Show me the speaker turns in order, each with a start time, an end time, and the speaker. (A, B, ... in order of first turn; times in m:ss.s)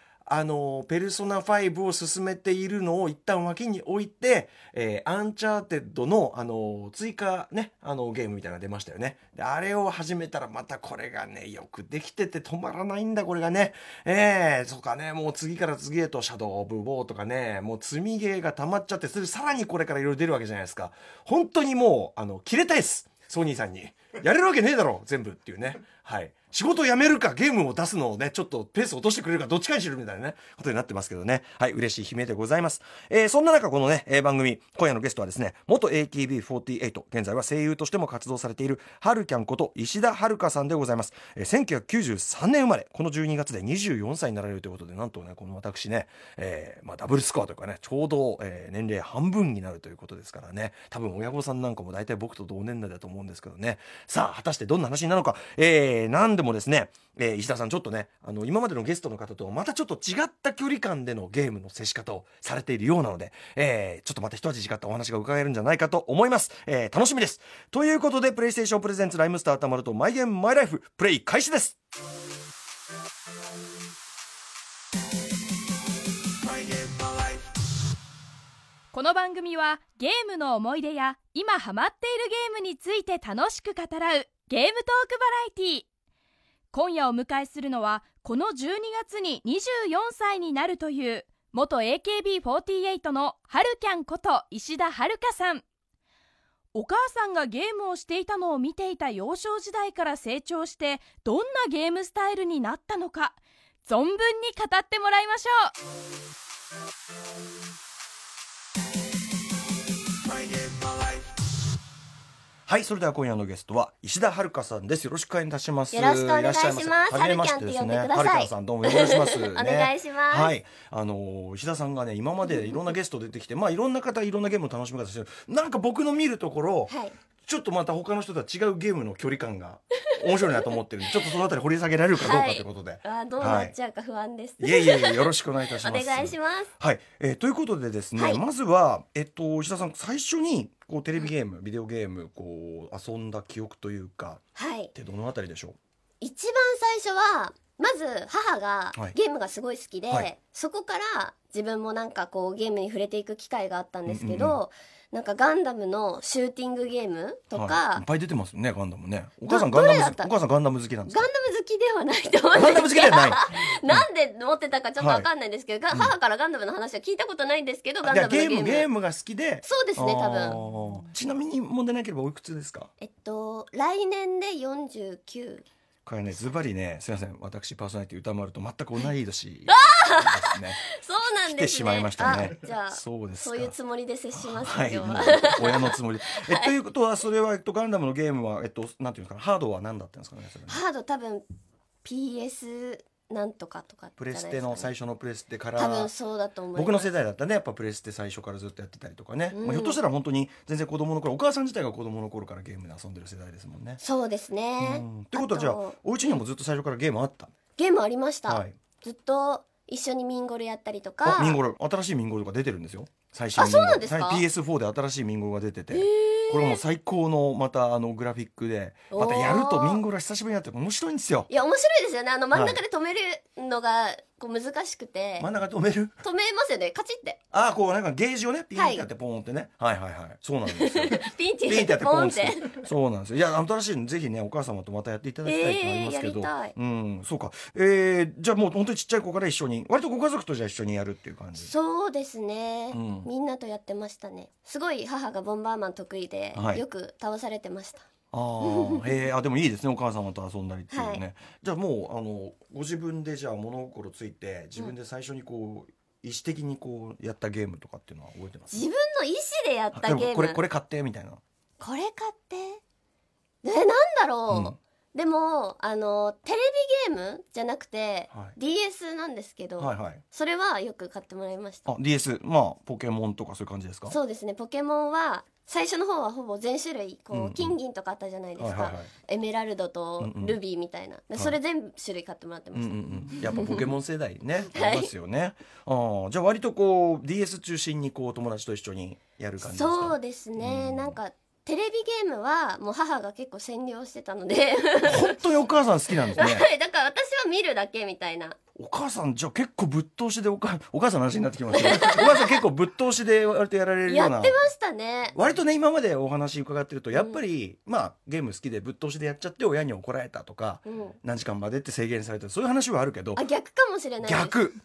0:00.3-1:11.8 A
1:18.9-1:25.9 B
1:26.7-1:35.6 B
1:36.7-1:45.7 B
1:52.7-2:06.9 A
1:55.9-2:00.5 C
2:06.9-2:07.2 C
2:07.4-2:13.7 A
2:10.2-2:10.7 C
2:12.2-2:16.7 C
2:14.6-2:25.8 A
2:18.2-2:18.4 C
2:24.6-2:24.9 C
2:26.2-2:38.0 C
2:34.1-2:34.6 A
2:37.5-2:41.3 A
2:39.5-2:40.3 C
2:41.1-2:48.9 C
2:42.5-2:44.0 A
2:45.0-2:45.3 A
2:48.0-2:52.9 A
2:49.6-2:50.6 C
2:53.0-2:55.7 C
2:56.1-3:00.8 A
2:59.7-3:06.7 C
3:01.4-3:03.7 A
3:04.4-3:10.8 A
3:10.7-3:11.4 C
3:12.0-3:14.9 C
3:14.2-3:16.1 A
3:15.8-3:17.1 C
3:16.8-3:24.0 A
3:19.5-3:20.0 C
3:24.0-3:26.0 C
3:24.8-3:27.5 A
3:27.8-3:31.6 C
3:28.5-3:28.8 A
3:31.2-3:41.5 A
3:33.6-3:34.4 C
3:35.9-3:36.8 C
3:39.1-3:40.0 C
3:41.5-3:45.5 C
3:42.5-3:42.8 A
3:45.4-3:46.2 A
3:46.2-3:47.4 C
3:47.5-4:01.7 A
3:48.8-3:49.0 C
3:50.7-3:52.8 C
3:55.4-3:56.8 C
4:01.6-4:08.1 C
4:02.9-4:03.3 A
4:06.6-4:06.8 A
4:08.3-4:18.8 A
4:08.6-4:09.1 C
4:10.9-4:11.2 C
4:18.7-4:20.6 C
4:19.9-4:21.4 A
4:21.8-4:22.8 C
4:23.6-4:31.9 C
4:24.5-4:24.8 A
4:29.8-4:30.2 A
4:31.9-4:34.2 A
4:34.1-4:43.9 C
4:37.3-4:37.8 A
4:38.6-4:39.1 A
4:40.2-4:40.6 A
4:42.7-4:51.2 A
4:44.7-4:45.1 C
4:49.6-4:55.4 C
4:55.0-4:56.7 A
4:56.3-4:58.6 C
4:58.8-5:04.6 A
5:01.7-5:02.6 C
5:04.1-5:05.4 C
5:05.3-5:13.4 A
5:07.1-5:07.4 C
5:10.8-5:11.2 C
5:13.4-5:14.6 C
5:14.2-5:14.8 A